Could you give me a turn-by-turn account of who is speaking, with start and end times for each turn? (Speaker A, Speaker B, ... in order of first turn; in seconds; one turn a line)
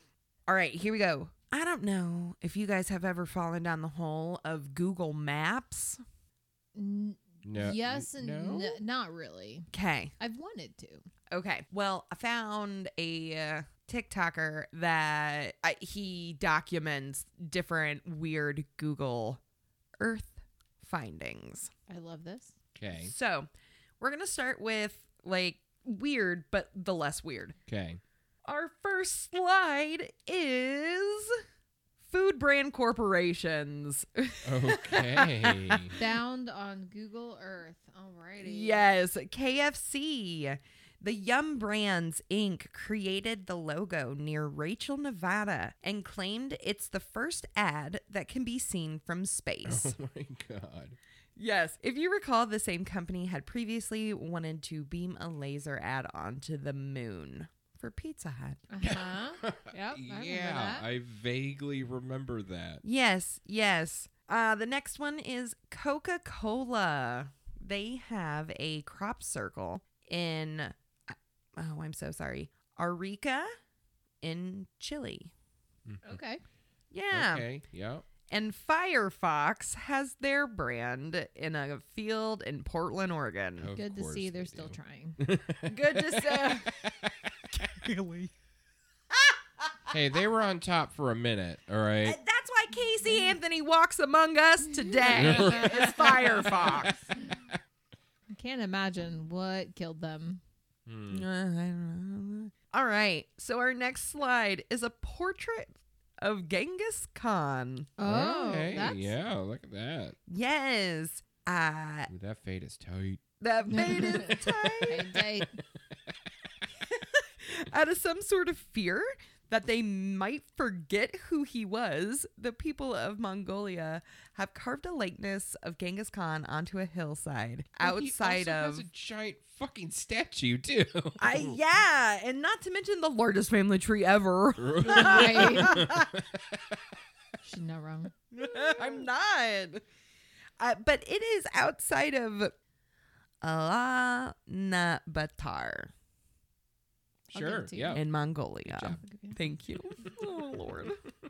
Speaker A: 0.5-6.0
Speaker B: 6.7-11.1
Speaker C: 7.5-8.8
Speaker A: 9.7-10.1
Speaker A: 11.3-19.4
Speaker A: 20.0-21.7
Speaker B: 21.9-22.5
Speaker C: 22.7-23.1
Speaker A: 22.9-23.5
Speaker A: 24.0-27.6
Speaker C: 27.7-28.0
Speaker A: 28.4-31.4
Speaker A: 32.1-36.1
Speaker C: 34.4-36.0
Speaker B: 36.0-38.8
Speaker A: 38.4-50.0
Speaker C: 49.6-51.0
Speaker A: 51.4-58.6
Speaker B: 58.7-60.8
Speaker C: 58.8-62.8
Speaker A: 62.8-73.5
Speaker A: 74.2-75.3
Speaker C: 75.9-76.2
Speaker B: 76.0-76.4
Speaker A: 76.9-77.5
Speaker C: 77.1-78.0
Speaker A: 78.3-83.7
Speaker C: 83.6-87.9
Speaker B: 83.8-85.2
Speaker A: 85.7-86.7
Speaker A: 87.6-88.3
Speaker A: 89.1-89.9
Speaker C: 89.9-92.2
Speaker A: 92.0-97.1
Speaker B: 94.8-95.9
Speaker C: 95.1-97.6
Speaker B: 98.3-100.4
Speaker C: 100.9-101.3
Speaker A: 101.1-107.9
Speaker B: 108.0-109.1
Speaker C: 108.0-110.2
Speaker A: 110.3-112.1
Speaker C: 112.1-113.2
Speaker A: 113.4-115.2
Speaker B: 113.7-115.6
Speaker C: 116.0-116.3
Speaker A: 116.8-128.8
Speaker C: 127.8-131.6
Speaker A: 131.2-136.2
Speaker C: 134.6-136.8
Speaker B: 134.8-135.8
Speaker B: 137.4-138.1
Speaker A: 138.3-139.8
Speaker A: 140.6-142.5
Speaker A: 143.4-145.9
Speaker C: 147.3-148.1
Speaker B: 147.3-148.0
Speaker A: 147.9-151.0
Speaker C: 148.7-149.0
Speaker B: 149.0-149.4